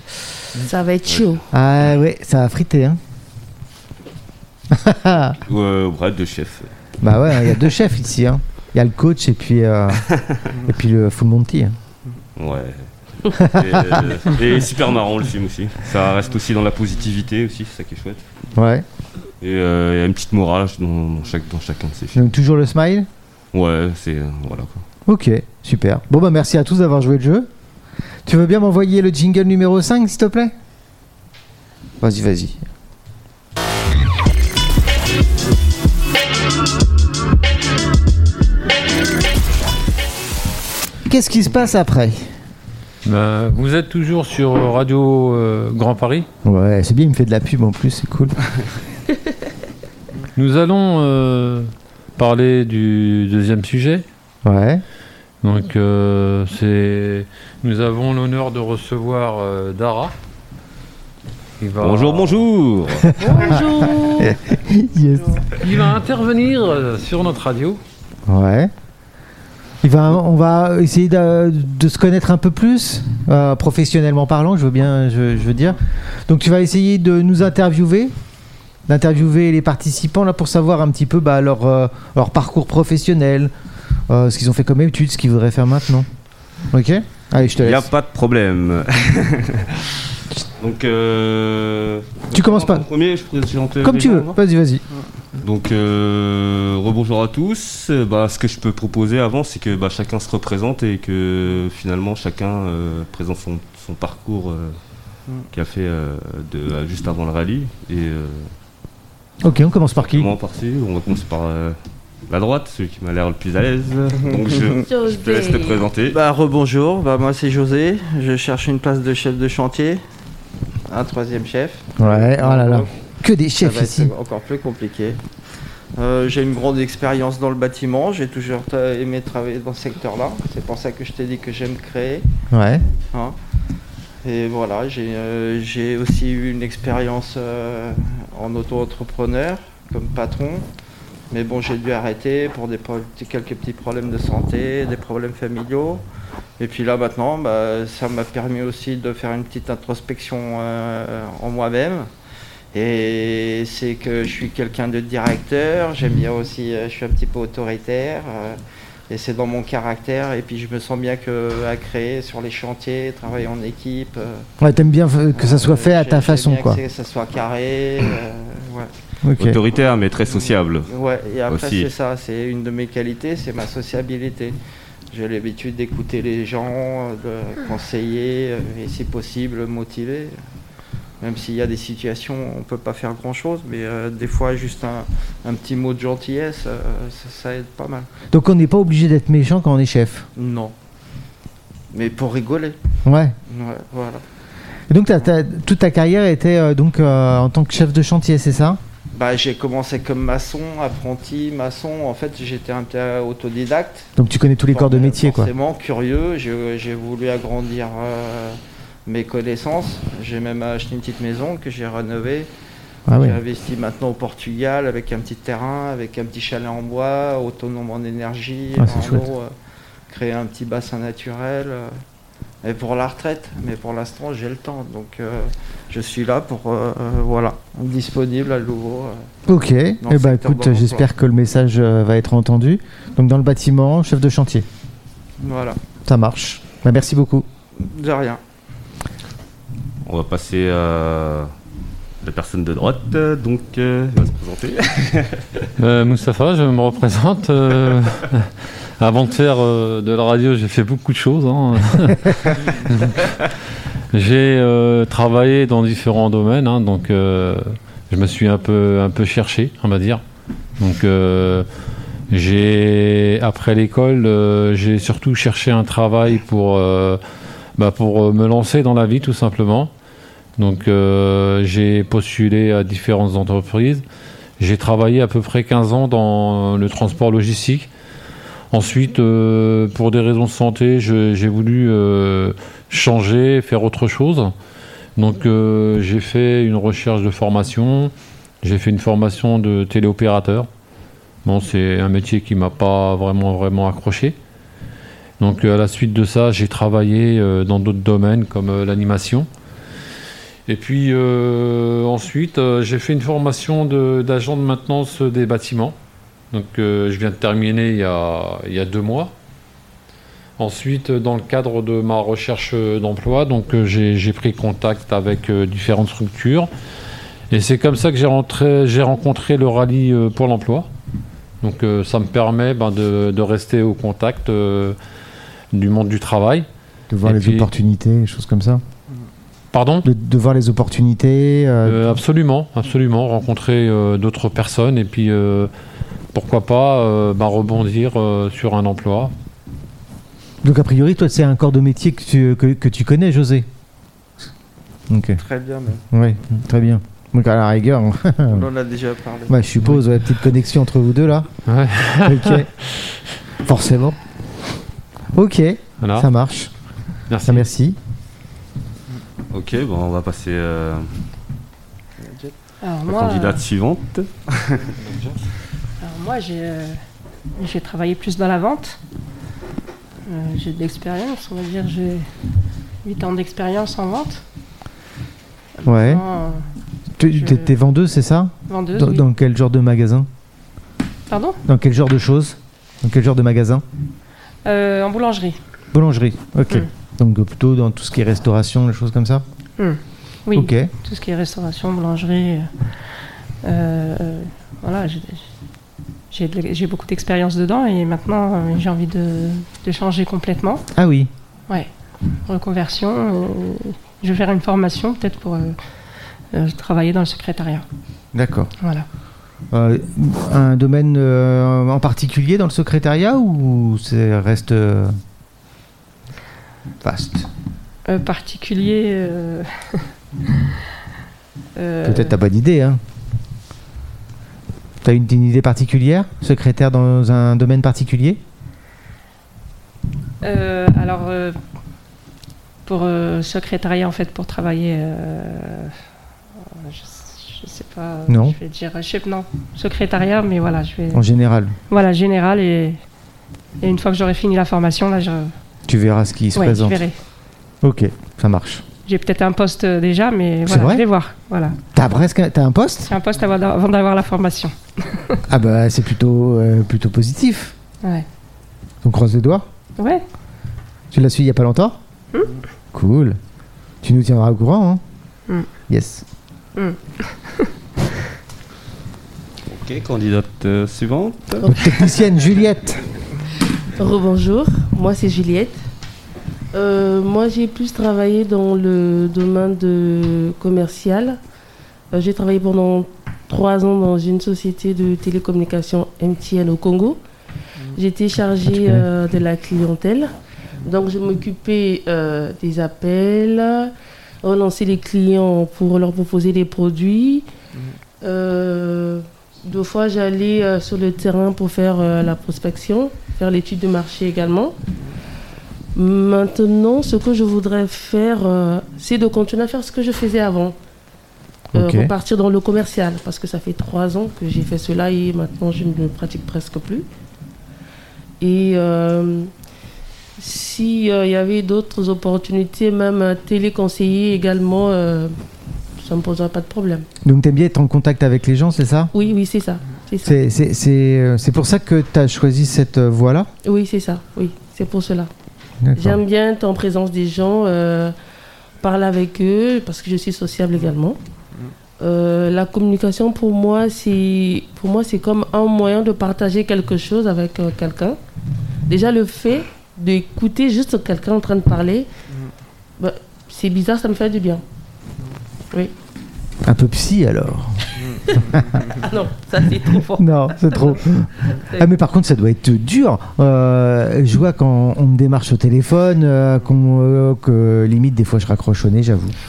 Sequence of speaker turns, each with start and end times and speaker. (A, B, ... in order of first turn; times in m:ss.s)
0:00.6-0:01.4 A
0:01.5-0:03.0 B
0:04.7-0:05.4 B
0:05.4-0:06.7 C
0:07.0-0:11.8 B
0:12.4-0:18.3 C
0:13.3-0:14.1 B
0:18.6-0:18.8 B
0:19.4-0:22.2 C
0:22.2-0:23.1 B
0:23.5-0:24.8 C
0:25.1-0:27.5 B
0:28.3-0:30.5 B
0:32.0-0:32.6 B
0:41.1-0:42.3 B
0:43.0-0:46.3 D
0:46.4-0:48.3 B
0:50.4-0:54.0 D
0:54.4-0:54.8 B
0:55.4-1:00.1 D
1:01.6-1:02.4 D
1:01.8-1:03.2 C
1:03.2-1:04.4 A
1:03.3-1:05.5 B
1:05.6-1:07.8 D
1:08.3-1:08.7 B
1:09.8-1:18.1 B
1:18.9-1:23.5 B
1:24.1-1:26.1 B
1:26.7-1:27.9 B
1:27.6-1:30.0 C
1:30.6-1:34.4 C
1:32.3-1:32.8 B
1:33.8-1:34.8 B
1:35.4-1:44.8 C
1:45.5-1:48.5 C
1:49.4-1:50.3 B
1:50.0-1:51.8 C
1:52.3-1:56.2 C
1:54.3-1:54.8 E
1:54.8-1:55.8 A
1:56.1-2:00.0 E
2:00.9-2:02.9 E
2:02.0-2:04.1 B
2:03.6-2:05.2 E
2:06.0-2:12.3 E
2:12.5-2:12.8 B
2:14.2-2:20.7 E
2:21.3-2:26.0 E
2:26.6-2:32.1 E
2:32.7-2:44.5 E
2:44.6-2:46.8 B
2:45.4-2:48.9 E
2:49.2-2:49.6 B
2:49.4-2:50.9 C
2:50.3-2:54.6 E
2:51.5-2:51.9 C
2:55.1-3:00.4 E
3:01.2-3:08.1 E
3:08.3-3:10.3 B
3:10.4-3:10.7 E
3:11.9-3:12.8 E
3:13.0-3:13.3 B
3:13.5-3:14.2 E
3:14.9-3:18.8 B
3:19.1-3:24.1 E
3:24.2-3:25.5 B
3:24.7-3:32.5 E
3:33.1-3:33.4 B
3:33.1-3:39.5 E
3:38.8-3:39.2 B
3:40.1-3:42.0 E
3:42.6-3:49.3 E
3:49.5-3:54.7 B
3:50.0-3:51.1 E
3:55.4-3:55.8 E
3:56.1-3:57.5 B
3:57.8-3:58.4 E
4:00.1-4:01.5 C
4:02.2-4:05.7 C
4:05.8-4:13.5 D
4:14.1-4:20.2 D
4:20.8-4:21.7 D
4:22.3-4:27.2 D
4:27.8-4:29.9 D
4:30.6-4:34.0 D
4:34.6-4:37.9 D
4:38.7-4:44.5 D
4:45.2-4:50.7 D
4:51.4-4:54.4 D
4:55.4-4:59.5 D
5:00.7-5:06.0 D
5:06.5-5:09.3 D
5:10.6-5:16.7 D
5:17.5-5:20.9 D
5:21.6-5:25.0 D
5:25.7-5:26.7 D
5:27.1-5:28.8 B
5:27.2-5:27.7 D
5:29.7-5:30.1 D
5:30.0-5:32.2 B
5:31.9-5:35.7 D
5:36.3-5:39.3 D
5:40.6-5:43.7 B
5:45.1-5:45.4 B
5:45.4-5:46.0 E
5:46.1-5:48.7 B
5:48.5-5:49.5 E
5:49.5-5:51.5 B
5:51.7-5:53.2 D
5:52.2-5:52.7 B
5:53.6-5:54.2 B
5:55.3-5:56.7 B
5:56.0-5:56.3 D
5:57.3-5:57.7 D
5:57.4-5:58.0 B
5:59.5-6:01.1 C
6:02.8-6:03.6 F
6:03.1-6:04.9 C
6:05.0-6:05.4 D
6:06.0-6:07.0 F
6:07.6-6:09.0 F
6:10.3-6:12.3 F
6:13.0-6:14.4 F
6:15.8-6:16.6 F
6:15.8-6:16.2 B
6:17.2-6:20.3 B
6:17.2-6:17.7 F
6:18.7-6:19.3 F
6:21.3-6:21.6 F
6:21.7-6:23.8 B
6:24.6-6:25.6 F
6:25.9-6:29.4 B
6:29.8-6:35.4 F
6:30.5-6:30.9 B
6:36.3-6:40.8 F
6:41.0-6:41.3 B
6:42.5-6:45.8 F
6:46.5-6:47.8 F
6:48.3-6:48.7 B
6:48.8-6:49.1 F
6:49.7-6:55.2 B
6:57.0-6:57.5 B
6:58.1-7:00.1 F
7:01.8-7:02.3 F
7:02.0-7:03.0 B
7:05.0-7:08.4 B
7:10.4-7:11.6 F
7:12.9-7:15.9 F
7:16.6-7:21.2 F
7:18.3-7:18.6 B
7:21.1-7:21.8 B
7:21.9-7:23.0 F
7:23.8-7:25.5 F
7:25.9-7:27.0 B
7:26.6-7:27.2 F
7:27.8-7:28.8 B
7:29.1-7:31.8 F
7:30.7-7:31.0 B
7:31.9-7:33.1 B
7:33.1-7:35.4 F
7:35.5-7:37.8 B
7:39.0-7:39.7 B
7:40.0-7:40.2 F
7:41.1-7:42.0 B
7:42.9-7:43.4 B
7:44.0-7:45.0 B
7:45.9-7:46.2 B
7:46.8-7:47.7 F
7:49.7-7:51.7 C
7:51.6-7:53.0 B
7:53.9-7:55.8 A
7:56.7-8:01.4 A
8:02.1-8:07.2 A
8:07.9-8:17.5 A
8:08.7-8:09.1 B
8:18.2-8:24.8 A
8:26.0-8:30.8 A
8:31.7-8:32.1 B
8:31.7-8:37.1 A
8:38.4-8:39.5 A
8:40.4-8:45.4 A
8:46.0-8:47.1 A
8:47.2-8:49.1 B
8:49.1-8:50.4 A
8:50.2-8:53.5 B
8:53.6-8:55.3 A
8:55.8-8:56.2 B
8:56.0-8:58.2 A
8:58.8-9:01.2 A
9:02.0-9:08.2 A
9:08.9-9:12.1 A
9:13.0-9:14.6 A
9:16.6-9:18.6 B
9:18.0-9:18.9 E
9:18.9-9:21.9 A
9:20.1-9:29.4 B